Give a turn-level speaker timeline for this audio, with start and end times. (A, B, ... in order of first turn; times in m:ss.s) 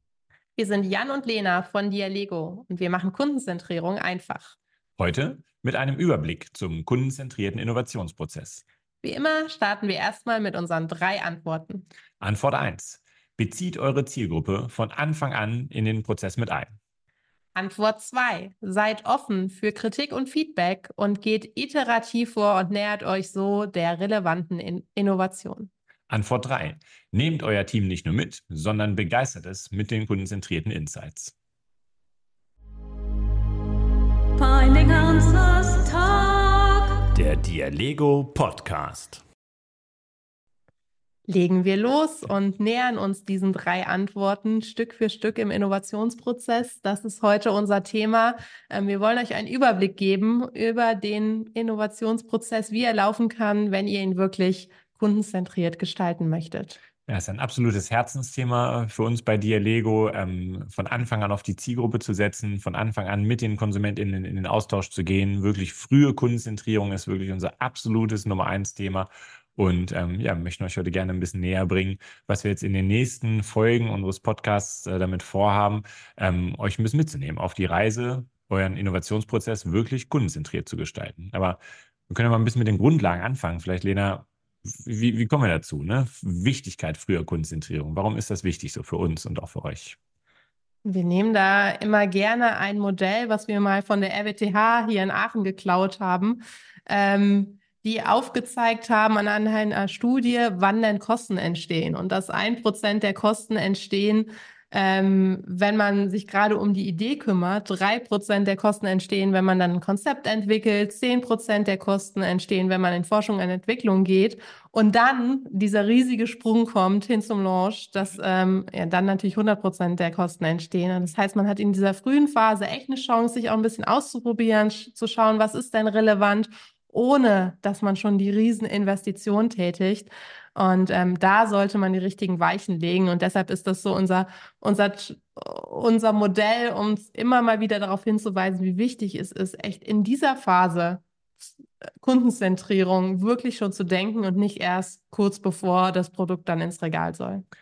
0:00.6-0:04.6 A
0:05.0-0:08.6 B
0:09.0-0:11.8 A
0:12.2-0:16.7 B
0:17.6-0:25.7 A
0:26.1-0:31.3 B
0:34.4-0:37.0 C
0:37.1-0:39.2 B
0:41.3-0:56.8 A
0:57.1-1:30.0 B
1:30.8-2:21.0 A
2:22.0-2:27.4 A